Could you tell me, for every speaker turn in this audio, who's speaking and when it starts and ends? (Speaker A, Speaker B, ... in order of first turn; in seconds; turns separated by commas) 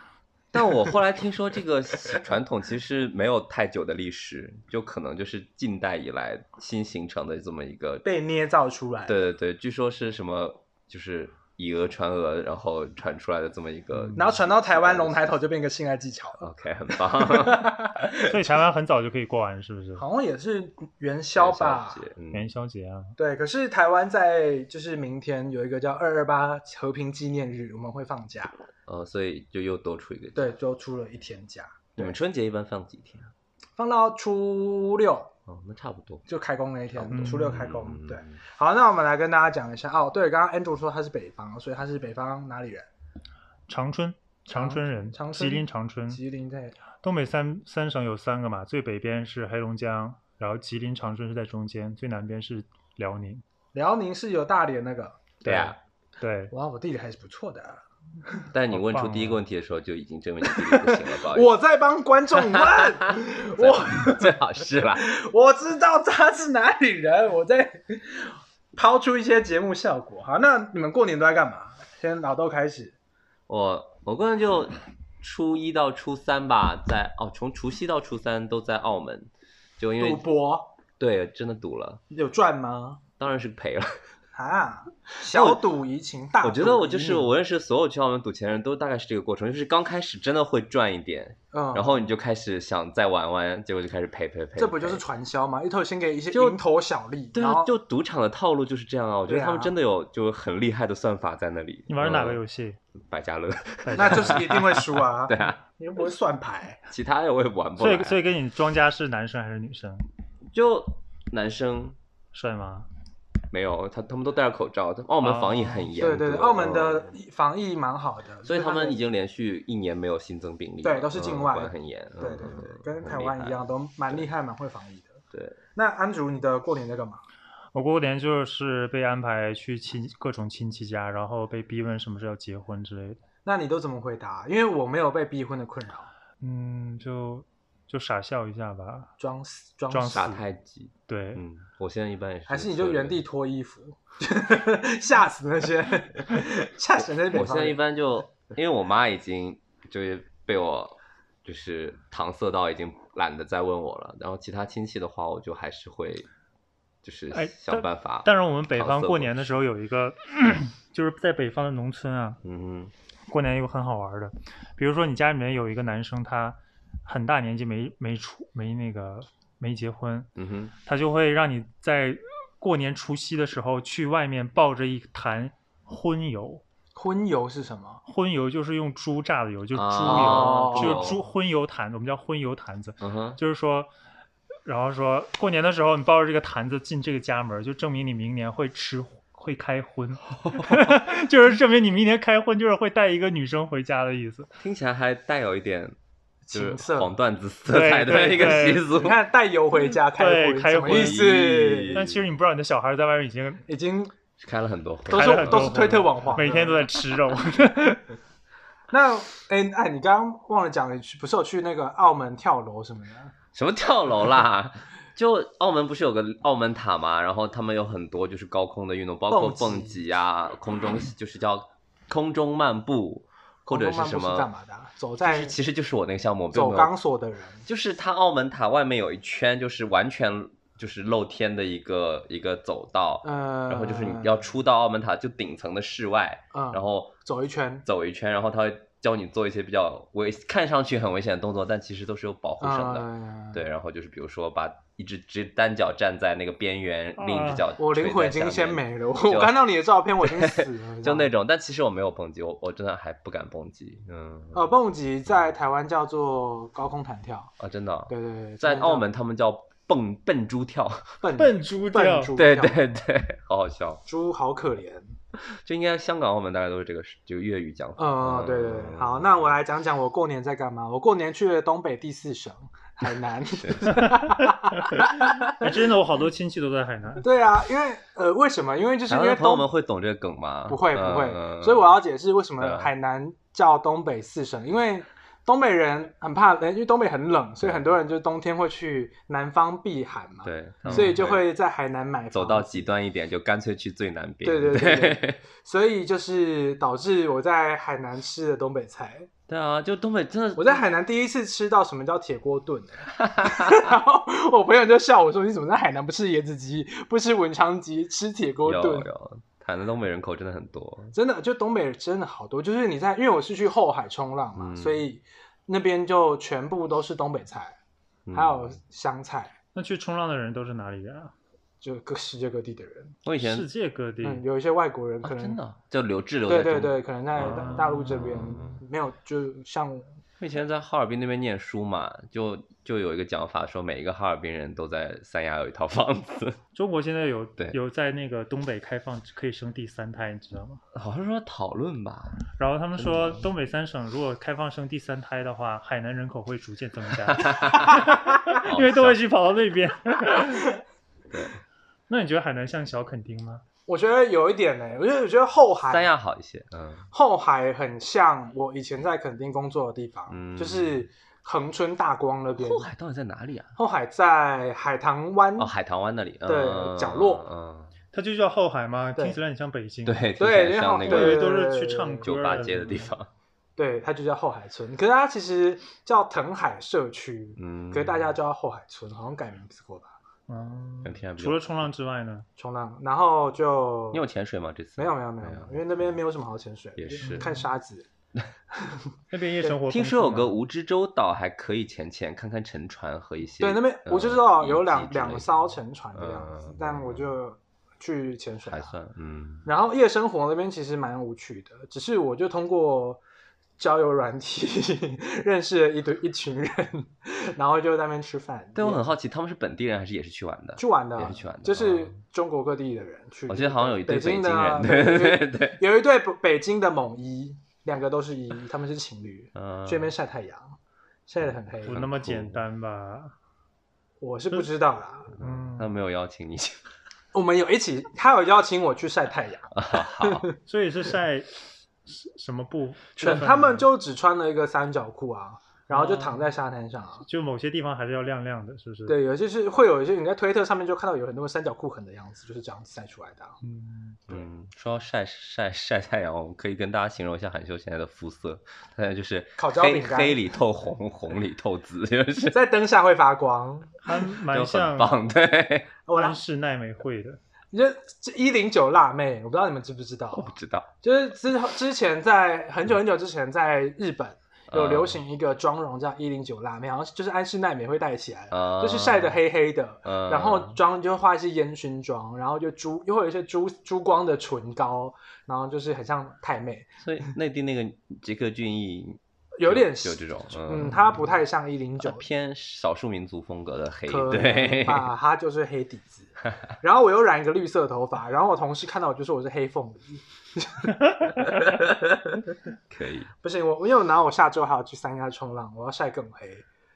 Speaker A: 0.5-8.1, Speaker B: 8.0-9.2, Speaker A: 9.1-15.4, Speaker C: 13.9-14.3, Speaker B: 14.1-18.4, Speaker A: 16.4-17.8, Speaker C: 18.2-20.0, Speaker B: 20.0-22.0, Speaker A: 21.4-22.5, Speaker C: 22.3-23.1, Speaker B: 23.2-28.6, Speaker A: 28.9-30.5, Speaker B: 30.4-32.2, Speaker A: 32.0-33.3, Speaker B: 33.8-35.3, Speaker A: 35.5-36.3, Speaker B: 36.3-42.9, Speaker A: 36.9-38.4, Speaker C: 37.1-37.6, Speaker C: 43.7-46.2, Speaker B: 44.5-46.8, Speaker C: 47.0-53.4, Speaker B: 53.7-55.3, Speaker C: 55.4-56.5, Speaker A: 55.5-55.8, Speaker B: 56.5-58.5, Speaker A: 58.5-61.5, Speaker C: 58.7-59.4, Speaker B: 60.5-64.4, Speaker A: 62.4-65.1, Speaker B: 65.0-73.0, Speaker A: 73.5-80.2, Speaker B: 80.0-80.7, Speaker A: 81.0-82.0, Speaker B: 82.1-83.0, Speaker A: 83.2-84.0, Speaker B: 84.3-87.3, Speaker A: 85.3-85.6, Speaker A: 86.4-95.0, Speaker B: 91.5-92.0, Speaker B: 94.6-97.7, Speaker A: 96.3-96.6, Speaker A: 97.3-102.4, Speaker B: 99.3-99.7, Speaker C: 101.9-102.8, Speaker A: 103.0-105.6, Speaker C: 103.8-104.5, Speaker B: 104.0-106.8, Speaker A: 106.9-108.2, Speaker C: 107.8-110.1, Speaker A: 110.5-112.0, Speaker C: 112.3-112.9, Speaker A: 113.5-117.1, Speaker C: 115.2-115.9, Speaker B: 116.0-119.0, Speaker A: 118.5-124.3, Speaker B: 120.8-125.2, Speaker A: 125.3-125.6, Speaker B: 125.8-127.2, Speaker C: 127.7-133.2, Speaker B: 133.4-136.1, Speaker C: 136.4-139.1, Speaker B: 139.2-140.3, Speaker C: 139.9-140.4, Speaker A: 140.1-143.2, Speaker C: 141.1-141.4, Speaker B: 142.5-147.8, Speaker A: 147.2-156.3, Speaker A: 157.0-159.6, Speaker C: 157.3-162.4, Speaker A: 162.4-162.9, Speaker C: 163.3-170.3, Speaker A: 170.4-170.7, Speaker C: 170.8-176.6, Speaker B: 176.9-178.0, Speaker C: 178.1-183.9, Speaker A: 179.7-181.2, Speaker B: 180.0-181.2, Speaker A: 183.0-183.4, Speaker C: 184.7-194.5, Speaker A: 190.4-190.9, Speaker A: 194.6-196.0, Speaker B: 196.5-197.2, Speaker A: 196.5-199.2, Speaker C: 197.7-198.9, Speaker B: 198.1-202.0, Speaker C: 200.1-201.2, Speaker A: 200.8-202.2, Speaker C: 201.9-203.6, Speaker B: 203.7-204.1, Speaker A: 204.4-205.8, Speaker B: 205.1-206.8, Speaker C: 205.1-208.0, Speaker B: 208.9-213.3, Speaker A: 213.5-224.5, Speaker B: 219.3-220.0, Speaker B: 223.7-225.6, Speaker A: 225.2-226.9, Speaker B: 226.5-227.6, Speaker A: 227.7-237.1, Speaker B: 233.2-234.4, Speaker B: 236.5-237.8, Speaker A: 237.9-249.6, Speaker B: 242.6-243.6, Speaker C: 247.2-247.7, Speaker B: 247.8-251.3, Speaker A: 250.2-254.7, Speaker B: 254.5-257.5, Speaker A: 257.6-261.2, Speaker B: 258.1-259.0, Speaker B: 261.2-263.0, Speaker C: 261.4-262.3, Speaker A: 262.3-264.0, Speaker B: 264.1-265.1, Speaker A: 265.5-269.6, Speaker B: 268.0-275.7, Speaker A: 273.6-273.9, Speaker C: 274.0-274.9, Speaker C: 275.5-277.3, Speaker B: 277.2-279.7, Speaker A: 279.1-281.9, Speaker B: 280.7-292.9, Speaker A: 282.6-282.9, Speaker A: 290.4-291.4, Speaker C: 290.9-291.1, Speaker A: 292.3-295.4, Speaker B: 294.4-299.3, Speaker A: 299.5-300.8, Speaker B: 300.6-309.1, Speaker A: 303.2-303.9, Speaker A: 308.6-311.1, Speaker B: 311.1-317.8, Speaker A: 314.6-315.1, Speaker A: 318.3-318.8, Speaker B: 318.3-319.5, Speaker C: 319.7-321.3, Speaker B: 321.8-323.2, Speaker A: 323.2-323.7, Speaker C: 323.4-324.4, Speaker B: 324.2-325.6, Speaker A: 325.2-328.8, Speaker B: 326.5-330.1, Speaker C: 327.4-328.4, Speaker A: 330.4-336.6, Speaker C: 336.8-340.8, Speaker A: 340.9-342.4, Speaker C: 342.6-350.6, Speaker A: 343.0-343.5, Speaker A: 347.3-349.2, Speaker B: 350.6-350.8, Speaker A: 351.3-351.6, Speaker C: 352.1-353.6, Speaker B: 353.9-356.1, Speaker A: 355.9-357.1, Speaker B: 357.1-362.9, Speaker A: 360.3-361.1, Speaker A: 362.6-363.7, Speaker B: 363.8-365.7, Speaker A: 365.6-367.9, Speaker B: 366.5-367.5, Speaker C: 368.1-370.3, Speaker A: 370.1-371.5, Speaker B: 370.4-372.6, Speaker C: 371.1-373.1, Speaker A: 372.2-373.3, Speaker B: 373.8-380.1, Speaker A: 377.6-378.4, Speaker C: 380.5-382.5, Speaker A: 381.0-381.8, Speaker B: 382.6-384.2, Speaker A: 384.1-386.1, Speaker B: 385.0-388.1, Speaker A: 387.0-387.5, Speaker C: 387.2-387.7, Speaker B: 388.8-389.1, Speaker C: 389.3-390.6, Speaker A: 389.8-397.3, Speaker B: 393.6-398.9, Speaker A: 398.7-399.7, Speaker B: 399.6-403.2, Speaker B: 403.8-409.1, Speaker A: 408.8-412.1, Speaker B: 410.8-420.8, Speaker A: 413.5-415.8, Speaker A: 419.6-420.1, Speaker B: 421.3-422.0, Speaker A: 421.8-422.6, Speaker C: 421.9-423.3, Speaker B: 424.2-425.3, Speaker A: 425.4-426.8, Speaker C: 425.4-425.9, Speaker B: 427.3-430.6, Speaker A: 429.7-430.5, Speaker C: 430.7-433.9, Speaker B: 433.2-437.2, Speaker C: 435.9-436.5, Speaker C: 437.2-439.2, Speaker B: 439.1-443.6, Speaker C: 443.6-444.2, Speaker A: 444.3-452.6, Speaker B: 449.6-450.4, Speaker B: 452.5-453.9, Speaker C: 454.0-455.1, Speaker A: 454.5-455.9, Speaker B: 456.1-456.4, Speaker C: 456.1-457.4, Speaker B: 457.7-477.0, Speaker A: 460.3-460.9, Speaker A: 464.7-465.2, Speaker A: 468.5-469.4, Speaker A: 470.1-470.8, Speaker A: 477.0-481.2, Speaker B: 479.6-482.3, Speaker A: 482.0-485.1, Speaker B: 484.1-492.4, Speaker A: 492.9-493.3, Speaker B: 493.4-496.6